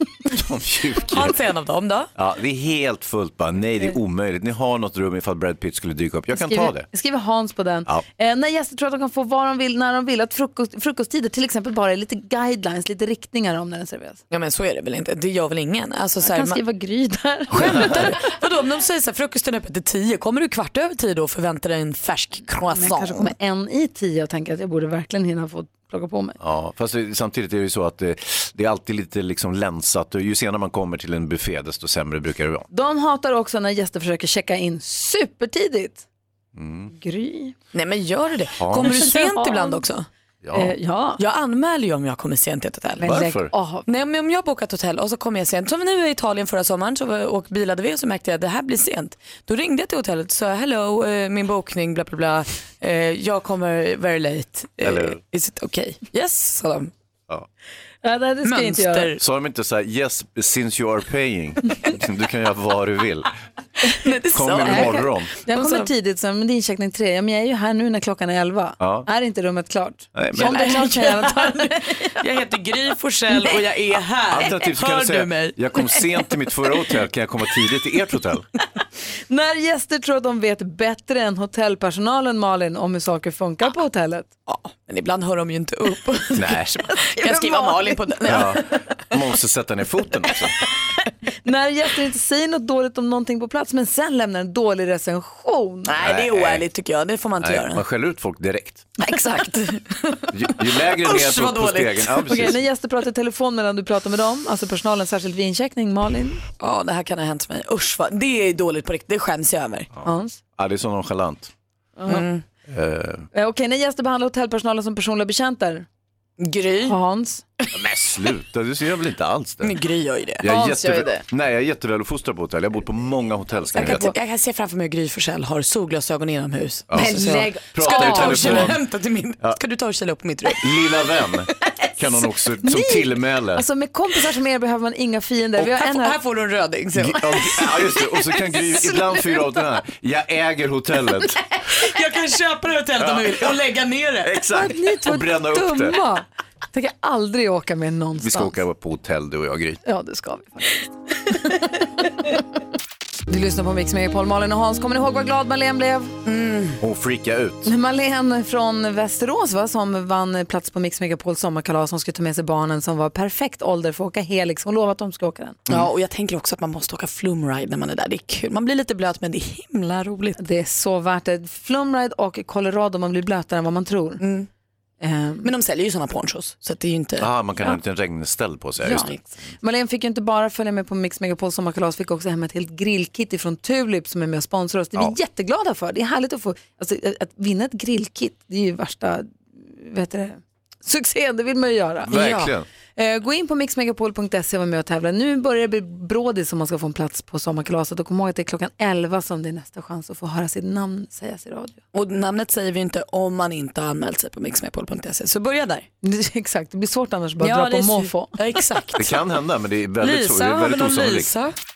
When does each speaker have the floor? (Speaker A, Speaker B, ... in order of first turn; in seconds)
Speaker A: 0.2-1.4, 2.1-6.9, 26.4-32.6, 36.5-36.9, 38.5-39.1, 40.4-40.7, 43.0-43.5, 54.8-55.2, 59.2-63.3, 64.3-65.3, 68.8-69.1, 70.1-70.6, 74.3-78.5, 86.3-86.9, 88.2-90.5, 96.0-96.6, 97.4-98.9, 100.3-102.6, 110.0-111.5, 112.7-113.3, 117.7-119.8, 120.4-124.1, 126.9-128.8, 130.6-133.6, 136.9-141.4, 143.0-143.6, 144.2-146.0, 148.2-149.8, 156.8-157.7, 177.2-179.1, 192.1-192.7, 208.9-211.3
Speaker B: 1.0-2.1, 14.3-16.6, 17.5-23.3, 37.7-40.1, 41.2-43.2, 43.9-56.9, 58.4-59.2, 63.9-65.9, 70.3-76.3, 84.5-88.6, 95.9-97.8, 99.0-102.4, 106.6-109.9, 112.0-112.4, 116.4-117.0, 119.6-120.5, 123.7-130.9, 135.6-139.4, 141.7-144.4, 156.2-156.8, 165.7-170.4, 174.2-174.5, 175.4-177.3, 178.9-179.2, 192.1-192.5, 201.9-205.9, 207.4-209.2, 210.0-211.5
Speaker C: 6.3-14.2, 16.2-18.2, 22.7-26.4, 32.7-36.0, 36.9-37.5, 38.8-39.8, 40.5-41.2, 43.0-43.8, 58.0-59.1, 64.6-72.0, 79.3-84.3, 87.2-88.2, 91.4-95.9, 102.3-106.4, 110.0-110.4, 112.0-112.2, 113.3-115.8, 116.8-117.4, 120.4-121.2, 123.7-124.1, 126.9-128.7, 132.6-136.2, 144.5-148.6, 149.8-150.8, 153.3-156.2, 157.6-165.6, 170.4-174.2, 175.0-175.5, 178.8-201.8, 206.0-208.3